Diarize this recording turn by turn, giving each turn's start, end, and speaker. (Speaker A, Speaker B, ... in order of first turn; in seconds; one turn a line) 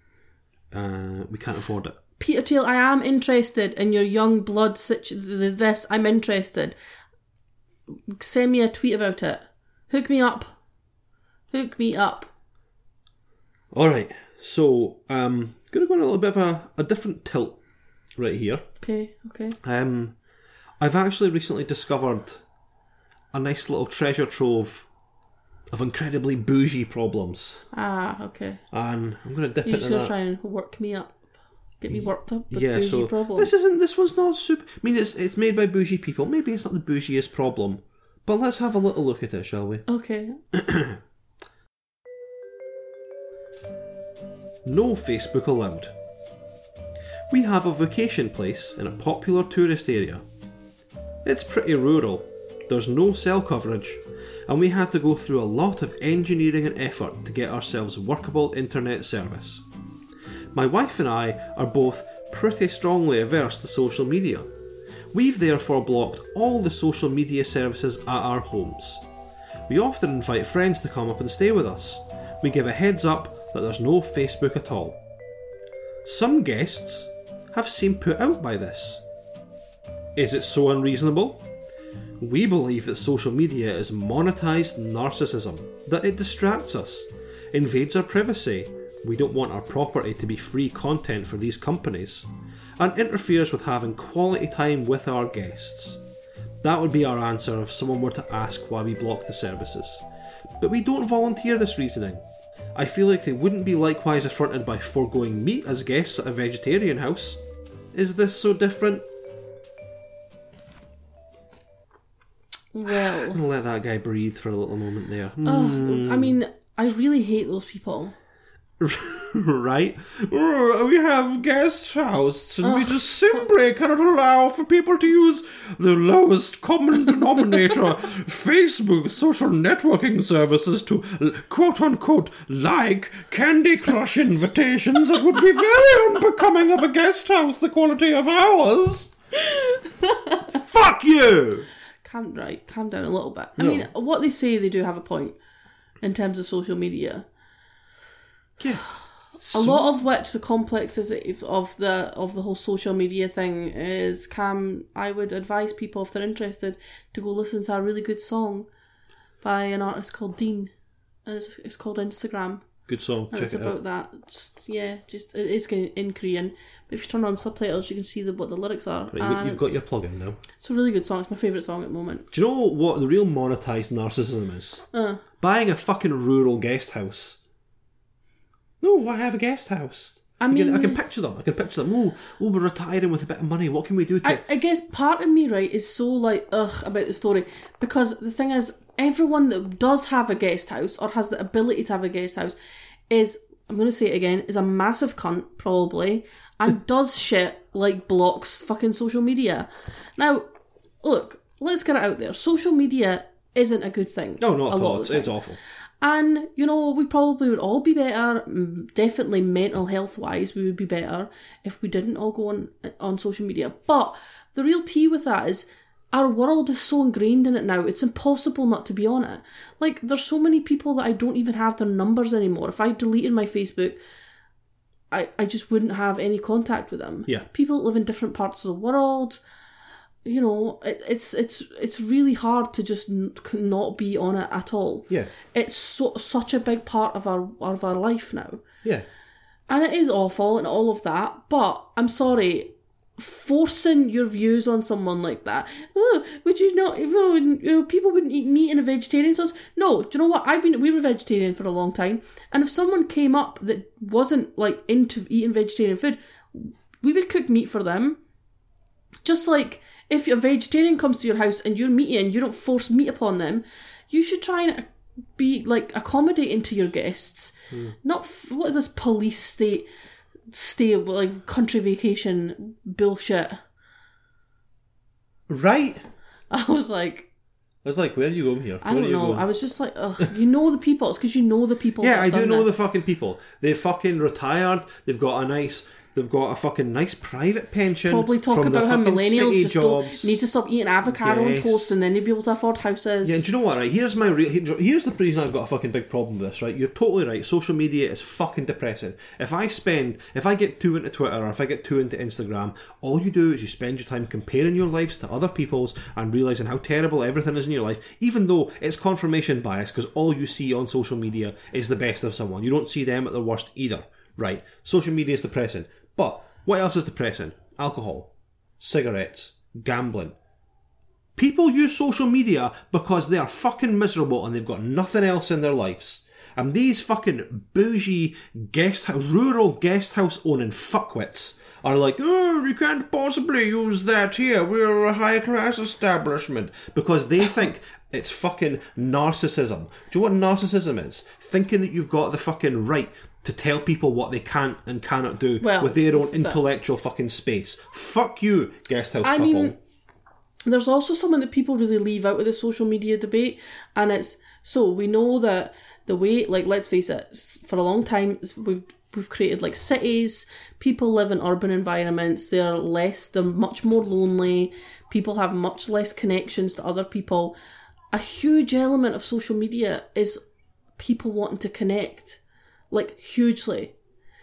Speaker A: 0.7-2.0
Speaker B: 2.2-6.8
Speaker B: 7.9-10.5
Speaker B: 11.5-12.3
Speaker A: 13.7-17.6
Speaker A: 18.2-18.7
Speaker B: 18.8-19.6
Speaker A: 19.6-20.1
Speaker A: 20.8-22.4
Speaker A: 23.3-24.9
Speaker A: 25.7-27.7
Speaker B: 27.7-28.6
Speaker A: 28.7-30.1
Speaker B: 29.6-31.2
Speaker B: 31.8-33.5
Speaker A: 31.9-39.8
Speaker B: 39.9-40.4
Speaker A: 40.5-41.0
Speaker A: 44.6-45.9
Speaker A: 47.3-50.2
Speaker A: 51.2-59.6
Speaker A: 60.5-64.5
Speaker A: 65.1-69.0
Speaker A: 69.7-75.0
Speaker A: 76.0-79.0
Speaker A: 80.2-81.5
Speaker A: 82.2-96.0
Speaker A: 96.6-100.0
Speaker A: 100.6-102.2
Speaker A: 102.8-107.4
Speaker A: 107.9-109.0
Speaker B: 112.7-113.4
Speaker A: 112.9-116.4
Speaker B: 115.4-118.2
Speaker A: 118.8-139.1
Speaker B: 122.6-123.4
Speaker B: 139.5-140.4
Speaker A: 140.5-141.7
Speaker B: 142.0-145.4
Speaker A: 143.6-143.9
Speaker B: 146.0-147.3
Speaker A: 148.6-149.8
Speaker B: 149.5-158.7
Speaker B: 159.4-160.7
Speaker B: 161.2-162.7
Speaker A: 162.9-163.7
Speaker B: 163.3-169.8
Speaker A: 169.1-170.4
Speaker B: 170.6-172.3
Speaker A: 172.3-174.8
Speaker B: 174.9-175.2
Speaker A: 175.4-177.4
Speaker A: 178.8-184.4
Speaker B: 180.4-181.0
Speaker B: 184.2-192.6
Speaker B: 193.1-200.5
Speaker B: 201.0-205.3
Speaker A: 204.4-205.6
Speaker B: 206.0-224.0
Speaker B: 225.1-229.4
Speaker B: 230.2-238.7
Speaker B: 239.7-258.2
Speaker B: 259.2-269.9
Speaker B: 270.5-273.6
Speaker A: 275.5-276.1
Speaker B: 276.5-277.3
Speaker A: 277.8-279.5
Speaker B: 278.8-282.7
Speaker A: 282.0-290.5
Speaker B: 288.1-293.5
Speaker A: 291.1-291.9
Speaker A: 293.2-320.4
Speaker A: 321.4-349.8
Speaker B: 345.6-346.6
Speaker B: 349.2-349.8
Speaker B: 350.7-367.6
Speaker B: 368.1-370.4
Speaker B: 371.0-372.4
Speaker B: 372.9-373.9